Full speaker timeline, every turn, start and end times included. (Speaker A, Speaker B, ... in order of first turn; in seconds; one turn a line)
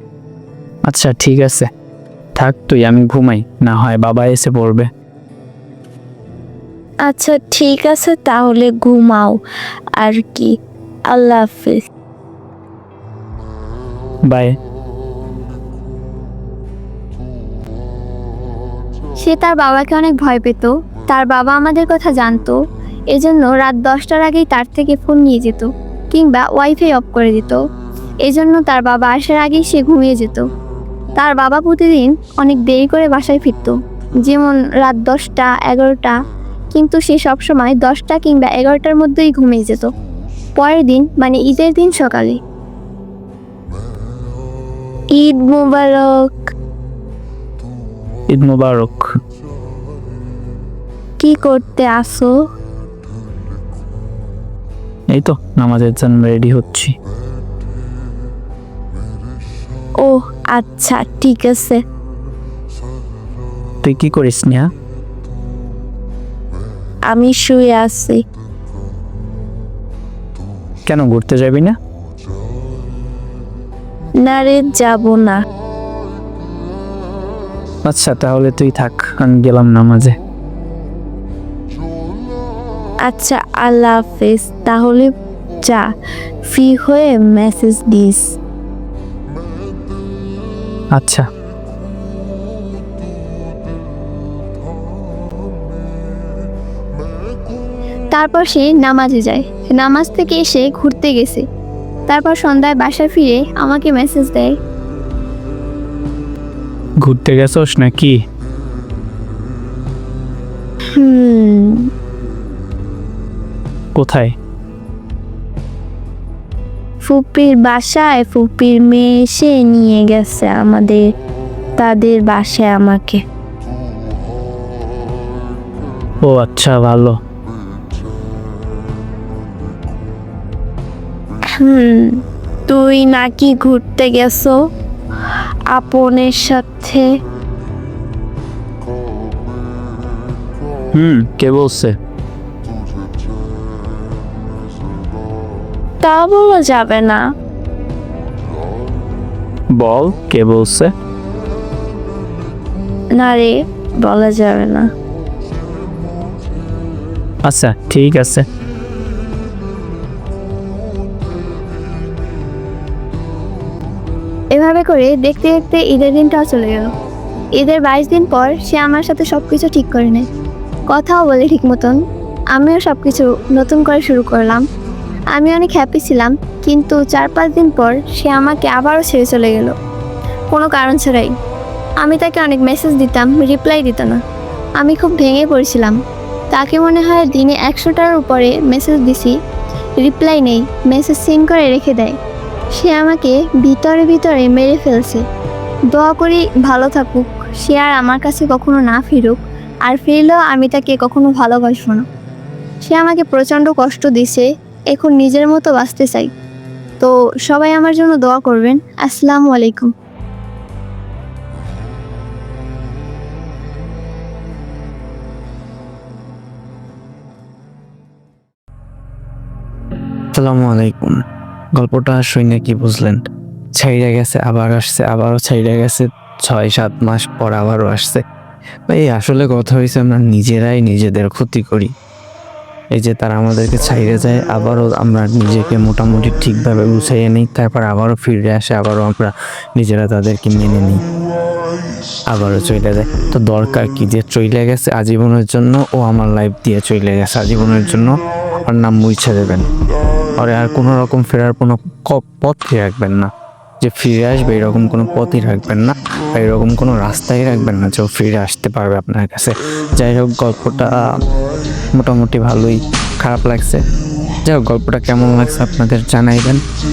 Speaker A: 0.9-1.7
Speaker A: 2.4-4.9
Speaker B: 7.1-9.4
Speaker B: 10.0-10.6
Speaker B: 11.1-11.9
Speaker A: 14.3-14.6
Speaker C: 19.2-22.6
Speaker C: 23.1-27.6
Speaker C: 28.2-30.5
Speaker C: 31.2-36.2
Speaker C: 36.7-39.9
Speaker C: 40.6-42.4
Speaker B: 45.1-46.1
Speaker A: 48.3-49.1
Speaker B: 51.2-52.3
Speaker A: 55.1-56.9
Speaker B: 60.0-61.8
Speaker A: 63.8-64.7
Speaker B: 67.1-68.2
Speaker A: 70.9-71.8
Speaker B: 74.2-75.4
Speaker A: 77.8-80.2
Speaker B: 83.0-85.9
Speaker B: 86.5-88.4
Speaker A: 90.9-91.3
Speaker C: 98.1-101.4
Speaker C: 102.1-104.5
Speaker A: 107.0-108.2
Speaker B: 111.0-111.9
Speaker A: 114.0-114.3
Speaker B: 117.0-121.0
Speaker B: 121.8-123.2
Speaker A: 126.3-127.2
Speaker D: 126.3-126.7
Speaker B: 131.6-134.6
Speaker B: 135.7-137.1
Speaker A: 140.9-141.9
Speaker B: 146.0-147.2
Speaker A: 149.7-150.9
Speaker B: 153.2-154.9
Speaker A: 157.4-158.5
Speaker C: 164.5-166.9
Speaker C: 167.6-170.2
Speaker C: 170.9-172.0
Speaker C: 172.6-174.6
Speaker C: 175.3-179.7
Speaker C: 180.5-181.3
Speaker C: 182.0-184.2
Speaker C: 184.8-186.0
Speaker C: 186.5-189.3
Speaker C: 190.0-192.2
Speaker C: 192.8-195.2
Speaker C: 195.9-202.1
Speaker C: 202.8-206.3
Speaker C: 207.0-209.9
Speaker D: 220.3-221.1
Speaker D: 221.8-223.2
Speaker D: 223.8-228.2
Speaker D: 229.0-231.9
Speaker D: 233.0-241.0
Speaker D: 242.3-248.1
Speaker D: 248.7-249.6
Speaker D: 250.4-253.3
Speaker D: 253.8-260.8
Speaker D: 262.0-263.8
Speaker D: 264.5-266.6